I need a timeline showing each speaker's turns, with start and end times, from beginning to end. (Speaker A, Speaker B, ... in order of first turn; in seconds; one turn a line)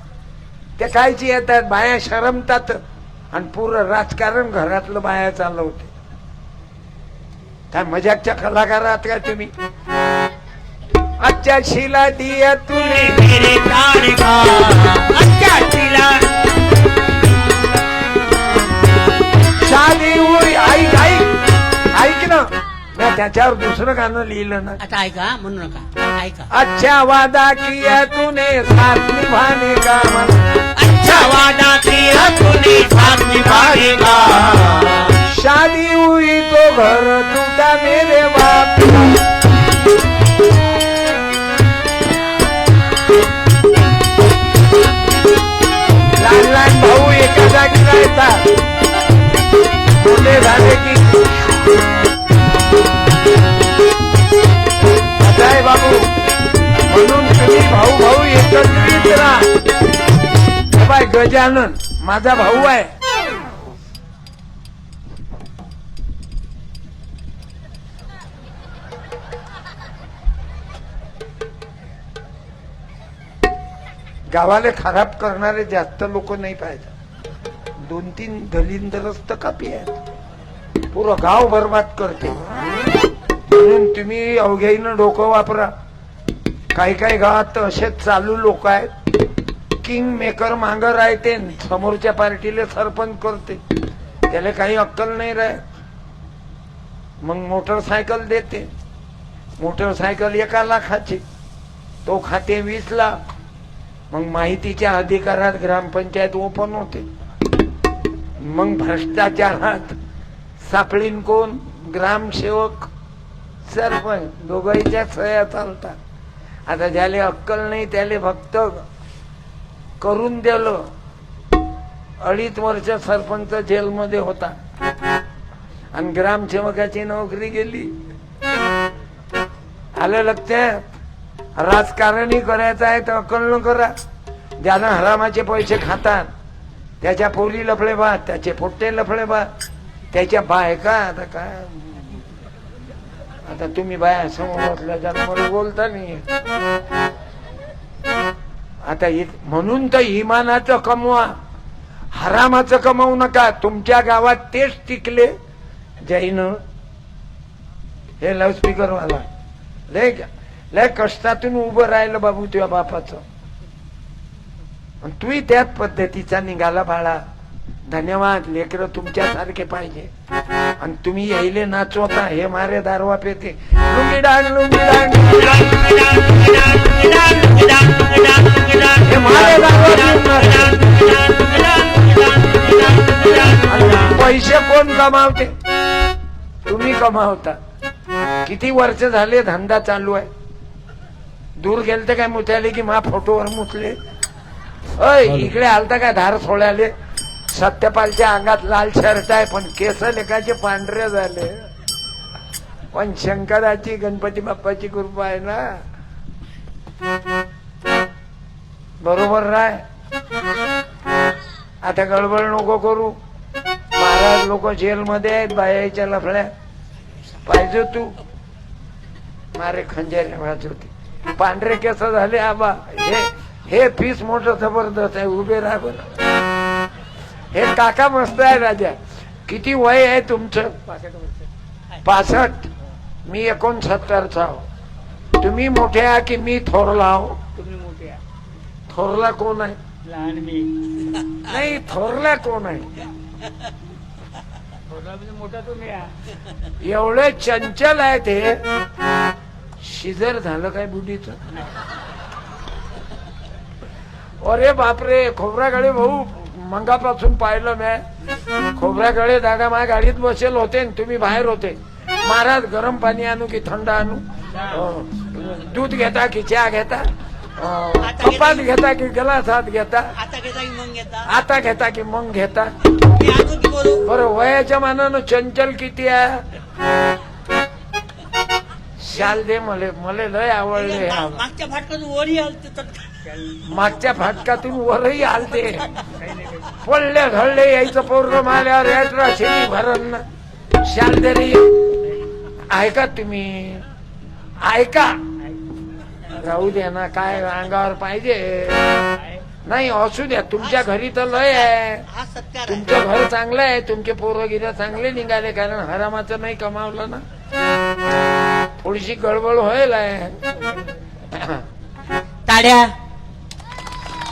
Speaker A: 0.8-2.8
Speaker A: 3.3-5.9
Speaker A: 7.7-9.5
Speaker A: 11.2-13.2
Speaker B: 13.0-16.4
Speaker A: 19.6-21.4
Speaker A: 21.9-24.8
Speaker B: 24.8-26.5
Speaker A: 26.5-30.4
Speaker B: 30.8-35.1
Speaker A: 35.3-39.1
Speaker A: 46.2-48.5
Speaker A: 50.0-51.0
Speaker A: 55.2-56.1
Speaker A: 56.9-59.5
Speaker A: 60.7-62.9
Speaker A: 74.3-76.9
Speaker A: 77.8-79.9
Speaker A: 80.9-82.5
Speaker A: 83.5-85.7
Speaker A: 86.7-88.9
Speaker A: 89.8-93.6
Speaker A: 94.3-95.6
Speaker A: 97.2-98.7
Speaker A: 99.6-101.2
Speaker A: 102.0-103.2
Speaker A: 104.1-107.1
Speaker A: 108.4-110.0
Speaker A: 110.6-112.9
Speaker A: 113.7-116.0
Speaker A: 116.7-118.8
Speaker A: 120.0-120.9
Speaker A: 122.2-124.6
Speaker A: 125.9-127.9
Speaker A: 130.0-130.9
Speaker A: 131.6-133.9
Speaker A: 134.6-136.3
Speaker A: 137.0-139.5
Speaker A: 140.1-142.2
Speaker A: 143.5-146.3
Speaker A: 148.8-151.3
Speaker A: 152.1-155.3
Speaker A: 156.0-156.6
Speaker A: 158.2-159.3
Speaker A: 159.9-163.2
Speaker A: 165.0-167.2
Speaker A: 167.9-170.1
Speaker A: 170.8-175.5
Speaker B: 175.2-184.2
Speaker A: 179.0-180.7
Speaker A: 183.7-185.5
Speaker A: 186.7-187.6
Speaker A: 188.4-190.3
Speaker A: 191.6-194.0
Speaker A: 195.0-196.9
Speaker A: 197.5-201.6
Speaker A: 202.9-205.8
Speaker A: 209.0-209.8
Speaker A: 211.8-213.2
Speaker A: 214.0-216.5
Speaker A: 217.5-218.1
Speaker A: 219.5-226.1
Speaker A: 227.5-230.8
Speaker C: 230.9-231.3
Speaker A: 232.0-232.7
Speaker A: 233.3-234.7
Speaker A: 235.4-237.4
Speaker C: 237.6-238.2
Speaker A: 238.9-239.8
Speaker C: 240.1-240.8
Speaker A: 241.4-242.9
Speaker C: 244.9-246.1
Speaker A: 246.8-248.6
Speaker A: 249.8-251.4
Speaker A: 254.4-258.1
Speaker A: 258.8-270.1
Speaker B: 268.0-268.7
Speaker B: 270.2-271.3
Speaker A: 271.2-272.7
Speaker B: 273.1-274.1
Speaker A: 274.1-276.4
Speaker A: 279.0-281.4
Speaker B: 280.8-283.1
Speaker A: 283.7-285.9
Speaker C: 286.2-286.7
Speaker A: 286.8-290.2
Speaker A: 290.8-291.7
Speaker A: 292.7-293.9
Speaker A: 294.6-295.2
Speaker A: 296.3-299.1
Speaker A: 299.6-302.1
Speaker B: 300.6-300.9
Speaker B: 301.5-302.9
Speaker A: 302.7-307.2
Speaker A: 308.8-310.4
Speaker A: 311.3-311.6
Speaker B: 312.5-312.9